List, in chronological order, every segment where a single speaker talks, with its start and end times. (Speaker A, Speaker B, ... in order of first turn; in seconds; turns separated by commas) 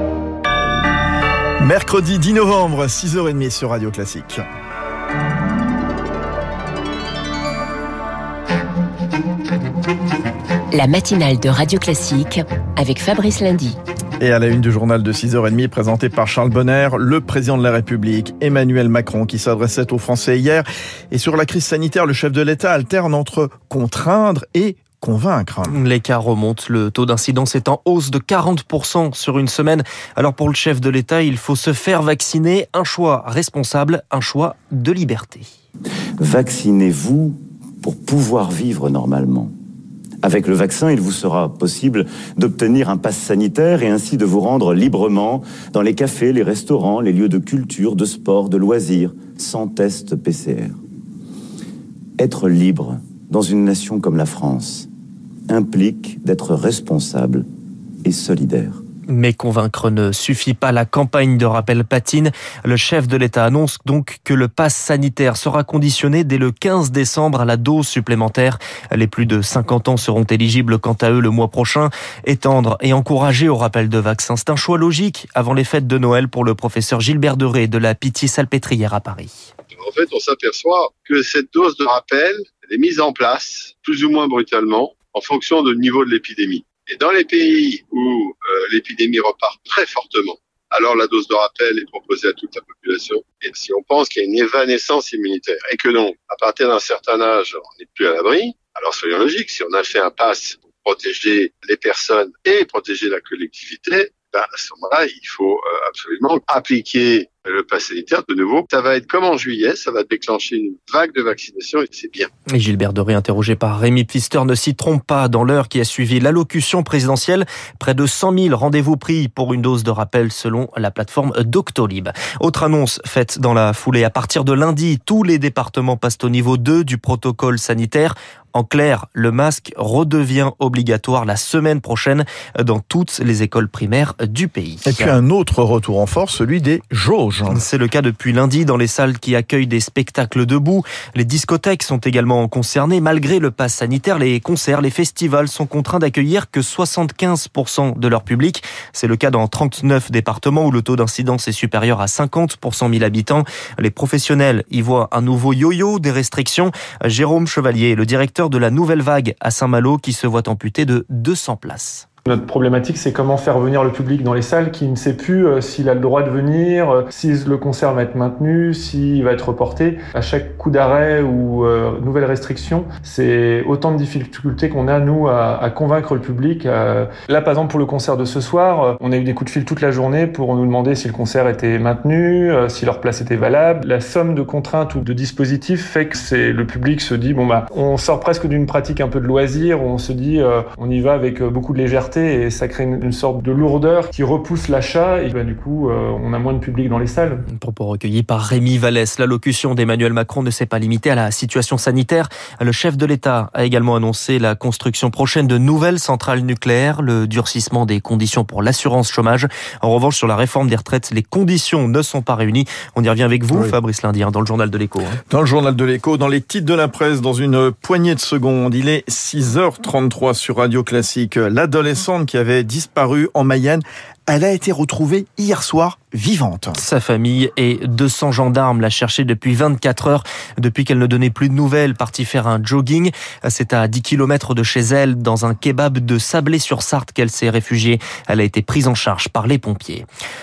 Speaker A: 1.6-4.4, Speaker B: 10.7-13.8, Speaker A: 14.2-25.8, Speaker C: 25.7-35.5, Speaker D: 36.2-39.5, Speaker D: 40.2-50.8, Speaker D: 52.2-54.9, Speaker D: 55.5-57.5, Speaker D: 58.0-58.8, Speaker C: 59.1-79.3, Speaker E: 79.7-112.3, Speaker C: 112.5-135.1, Speaker A: 134.9-137.6, Speaker C: 137.5-162.1, Speaker F: 162.3-197.4, Speaker C: 197.5-215.2, Speaker A: 215.3-226.8, Speaker C: 226.8-240.1